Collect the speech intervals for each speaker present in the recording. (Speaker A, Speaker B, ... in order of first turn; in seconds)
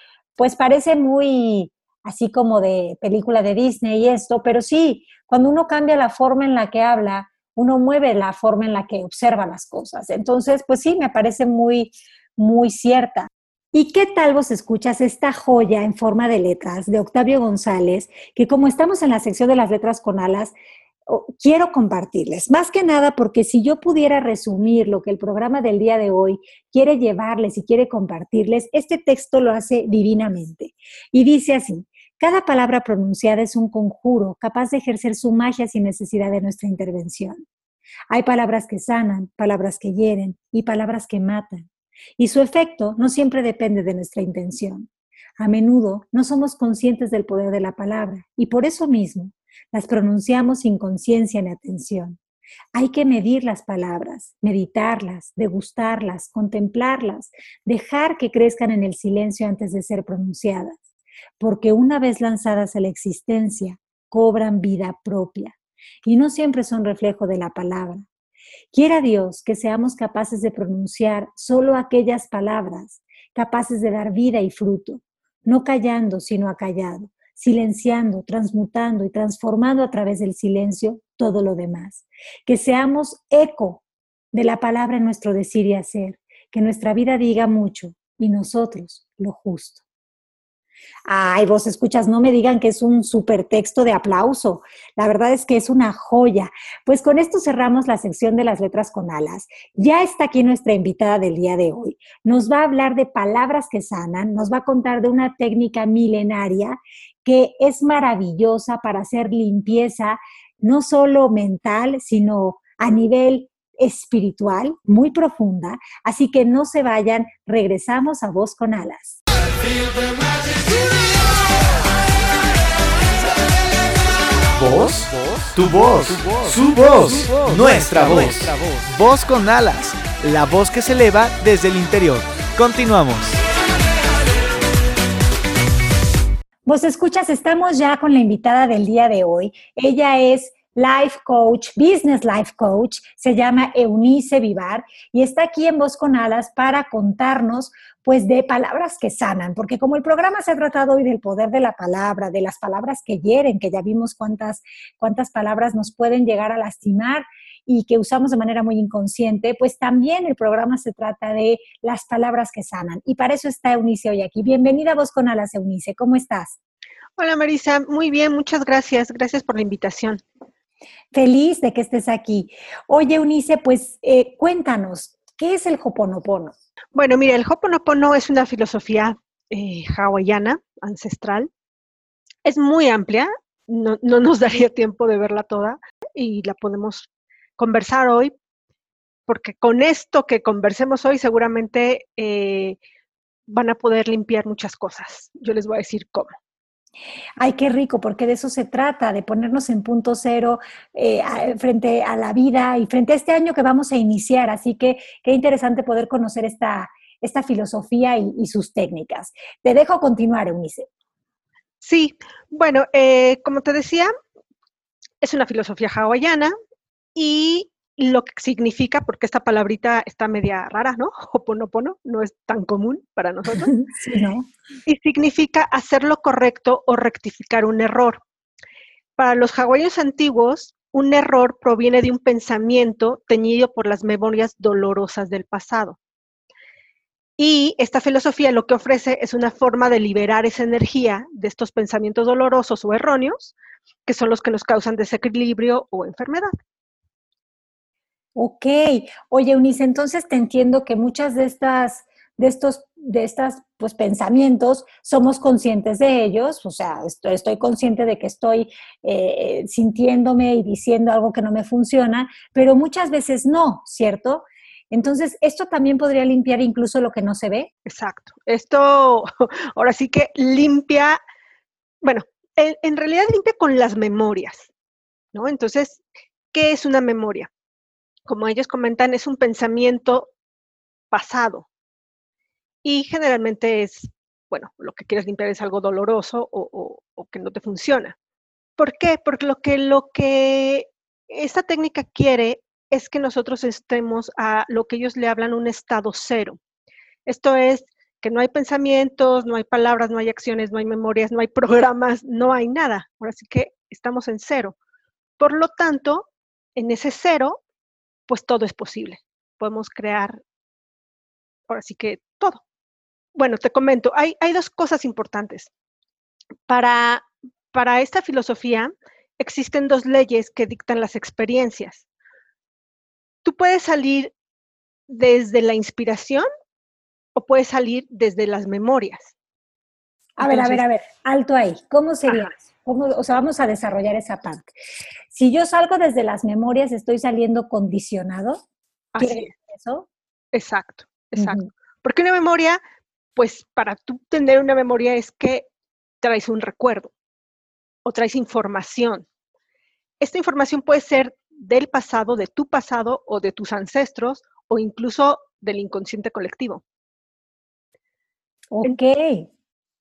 Speaker A: 0.4-20.5, 21.1-37.5, 38.1-52.2, 52.7-60.8, 61.4-68.1, 68.7-89.8, 91.1-119.2, 136.7-166.6, 171.1-176.5, 197.4-210.9, 223.5-224.5, 248.3-267.7, 330.4-334.7, 335.3-338.6, 339.2-340.1, 341.4-341.7, 358.7-359.5
Speaker B: 124.6-133.4
Speaker C: 167.2-170.2, 176.9-181.5, 182.4-188.3, 189.3-192.8, 193.5-196.3, 211.8-214.1, 215.2-216.5, 217.2-223.7, 224.9-228.2, 229.2-236.0, 237.4-243.5, 244.1-246.5, 267.9-271.2, 272.0-274.7, 275.3-276.0, 276.5-277.5, 278.3-280.3, 281.1-281.7, 282.9-288.2, 288.8-296.6, 297.3-304.8, 305.4-307.6, 308.3-310.4, 311.7-312.6, 313.4-315.7, 316.7-322.1, 323.4-324.3, 325.1-326.5, 327.4-329.3, 330.4-330.8, 339.1-339.5, 340.5-342.8, 343.4-345.7, 346.2-347.1, 348.1-349.3, 350.2-356.8